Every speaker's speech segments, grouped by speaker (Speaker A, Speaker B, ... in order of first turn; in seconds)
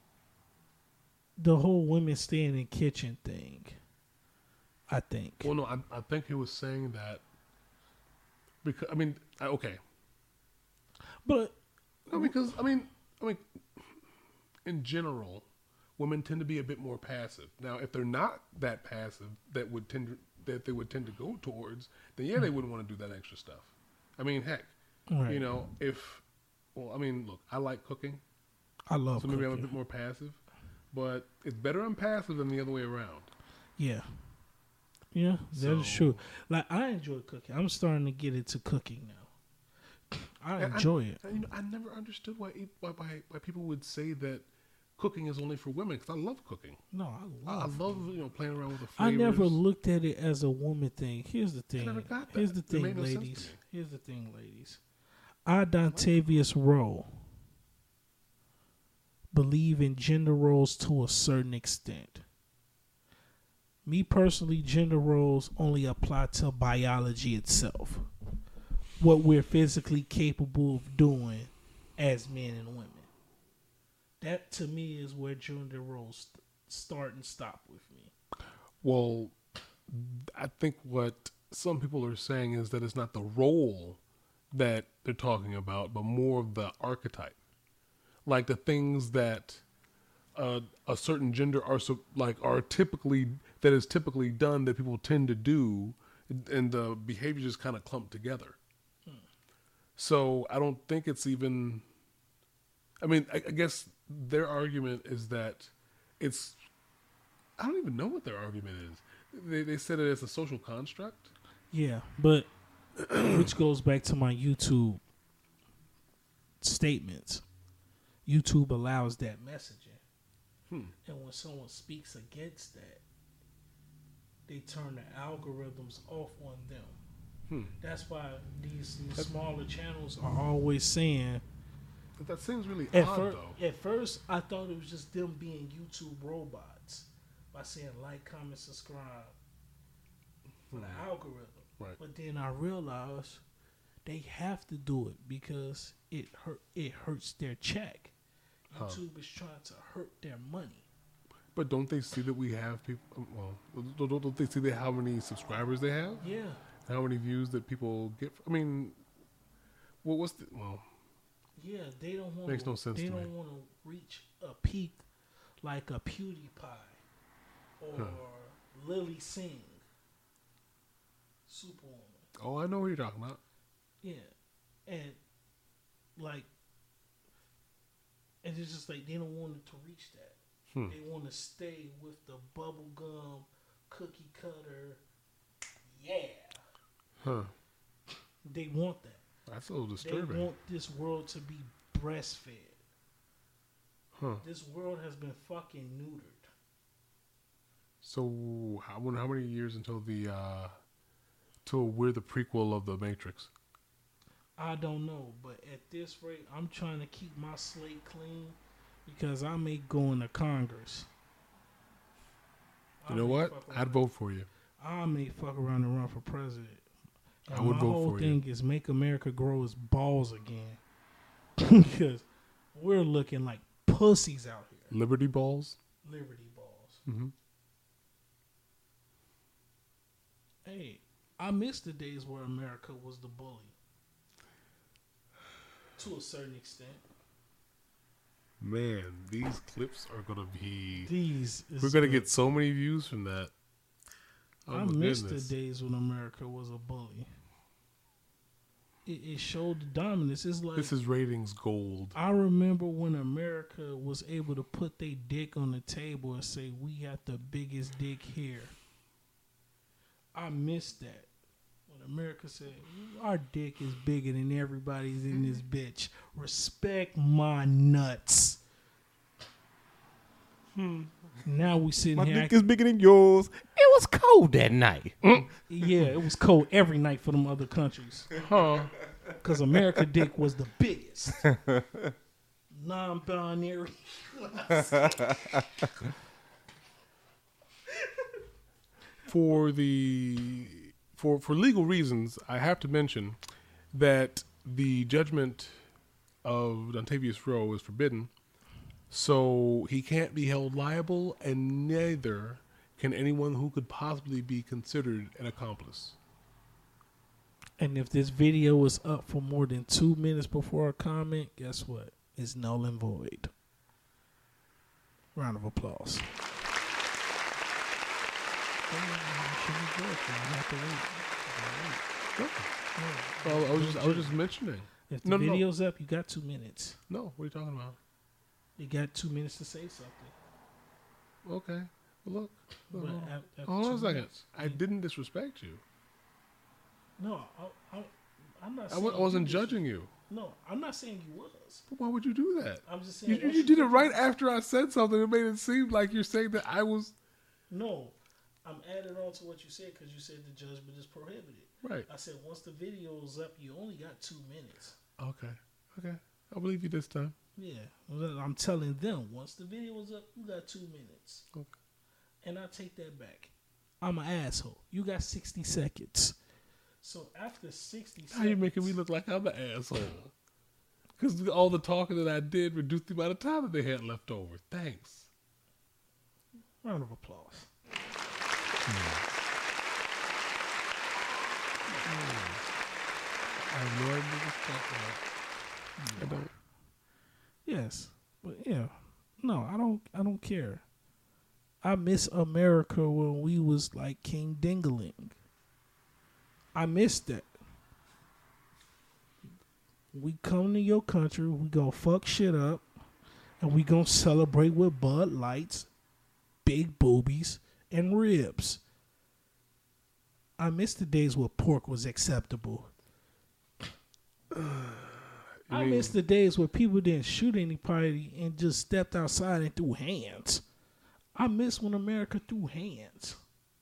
Speaker A: 1.4-3.8, 4.9-5.5, 11.2-11.6, 12.1-12.4, 25.1-25.5, 28.9-29.7, 33.8-34.1, 35.1-39.3, 40.1-41.2, 46.9-47.9, 49.0-54.8, 55.5-57.1, 59.3-62.2, 63.9-68.1, 69.0-73.1, 74.2-78.1, 111.7-112.5, 113.2-115.0, 116.6-117.4, 118.2-120.0, 121.0-123.0, 124.5-127.0, 127.8-131.4, 132.9-139.3, 140.7-143.4, 144.0-148.1, 148.7-150.8, 156.2-156.6, 161.6-165.0, 165.6-167.0, 167.8-169.8, 171.5-172.2, 174.0-174.3, 174.9-175.2, 176.2-176.5, 178.4-185.0, 185.9-186.6, 188.4-189.2, 190.0-192.8, 194.4-196.5, 204.6-211.1, 213.0-214.0, 214.8-216.8, 217.5-220.8, 221.6-224.9, 226.0-227.0, 230.6-233.7, 236.0-237.0, 241.1-242.3, 244.7-247.3, 249.1-250.9, 252.1-258.7, 260.3-261.3, 261.9-268.6, 271.4-272.6, 275.7-278.4, 279.4-281.5, 282.7-285.3, 307.8-313.5, 315.3-316.3, 318.9-322.0, 322.9-324.4, 325.1-327.0, 328.8-330.3, 332.9-334.8, 337.2-341.9, 342.9-344.2, 347.7-355.0, 357.6-361.4, 362.4-366.4, 367.0-369.0, 376.8-377.7, 386.0-386.5, 387.6-390.8, 391.8-395.4, 396.7-397.5, 400.1-402.9, 403.6-405.9, 406.6-408.8, 410.6-412.9, 415.7-420.6, 421.3-423.4
Speaker B: 5.4-7.2, 8.6-9.8, 12.1-13.9, 14.6-15.4, 16.0-24.7, 25.3-26.2, 26.7-28.2, 29.2-30.4, 30.9-33.3, 35.5-36.2, 40.6-44.4, 45.0-46.8, 47.5-49.6, 51.8-53.6, 78.8-79.4, 79.9-84.0, 84.5-87.3, 88.2-89.6, 90.3-98.6, 100.0-101.8, 103.0-106.6, 107.6-111.3, 113.1-113.5, 127.5-127.7, 132.2-133.6, 140.7-141.0, 148.7-149.0, 151.5-156.2, 156.8-159.0, 160.0-160.8, 162.5-163.3, 172.4-173.4, 187.2-187.5, 189.5-190.5, 194.1-194.4, 198.0-200.7, 201.6-203.5, 213.1-214.5, 217.5-218.4, 224.9-225.8, 227.1-227.3, 238.6-241.1, 241.8-243.5, 244.7-245.5, 250.8-252.2, 270.7-271.1, 275.2-275.5, 278.4-278.9, 289.3-293.4, 293.9-295.8, 296.4-298.3, 299.1-306.1, 322.4-322.7, 323.4-325.6, 327.1-328.0, 331.4-335.8, 338.9-340.1, 341.9-347.1, 351.8-352.1, 355.2-357.3, 368.3-370.3, 371.2-375.3, 378.9-379.2, 382.0-382.6, 383.7-385.2, 386.2-386.5, 414.5-416.1
Speaker C: 272.1-275.2, 281.4-282.1